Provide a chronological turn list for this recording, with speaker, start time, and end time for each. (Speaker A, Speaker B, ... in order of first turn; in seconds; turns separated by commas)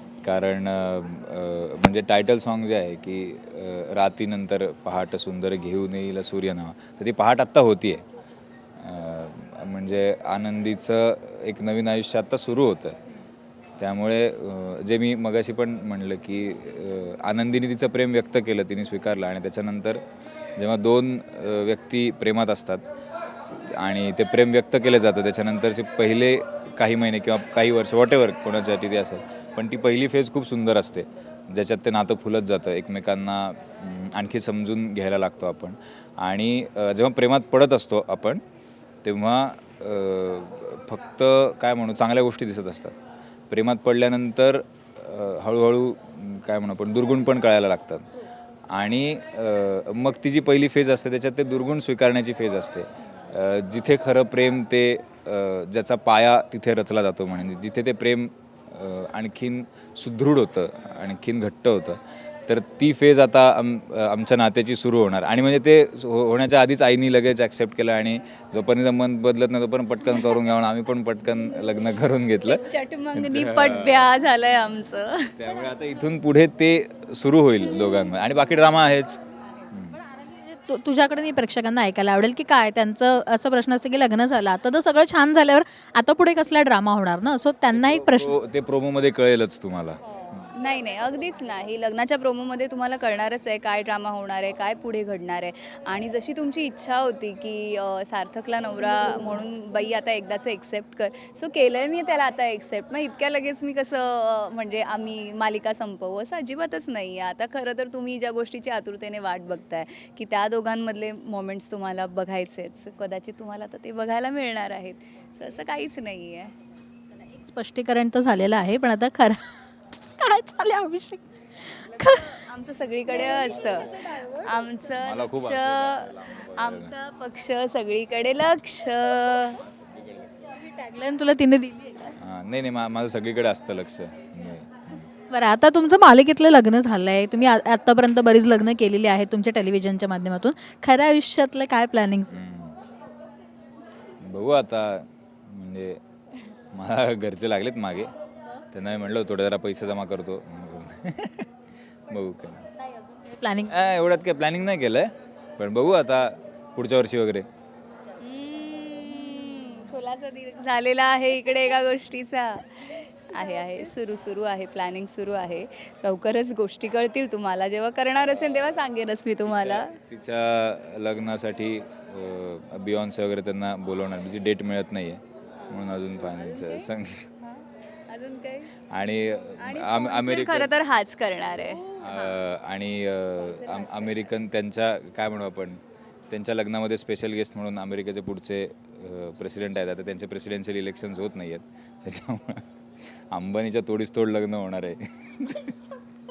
Speaker A: 0.2-8.0, Speaker A: 8.8-13.0, Speaker A: 13.8-20.0, Speaker A: 20.6-22.8, Speaker A: 23.7-38.4, Speaker A: 39.0-42.9, Speaker A: 43.5-48.1, Speaker A: 48.7-74.1, Speaker B: 72.7-75.3, Speaker A: 75.4-80.0, Speaker C: 79.6-88.3, Speaker A: 87.7-90.5, Speaker B: 90.5-116.5, Speaker C: 117.2-122.4, Speaker B: 121.9-129.6, Speaker A: 123.3-124.1, Speaker A: 124.9-126.9, Speaker A: 129.6-130.6, Speaker C: 130.6-132.1, Speaker A: 132.2-135.1, Speaker C: 135.3-142.3, Speaker A: 142.3-142.8, Speaker A: 144.2-146.0, Speaker A: 146.7-148.1, Speaker A: 148.7-151.5, Speaker A: 152.1-152.7, Speaker C: 153.0-153.7, Speaker A: 153.7-157.5, Speaker B: 158.1-170.0, Speaker A: 169.4-177.3, Speaker B: 175.6-176.9, Speaker B: 177.4-178.7, Speaker A: 178.9-180.7, Speaker B: 179.6-182.4, Speaker A: 181.8-192.6, Speaker B: 183.4-184.3, Speaker A: 193.3-195.8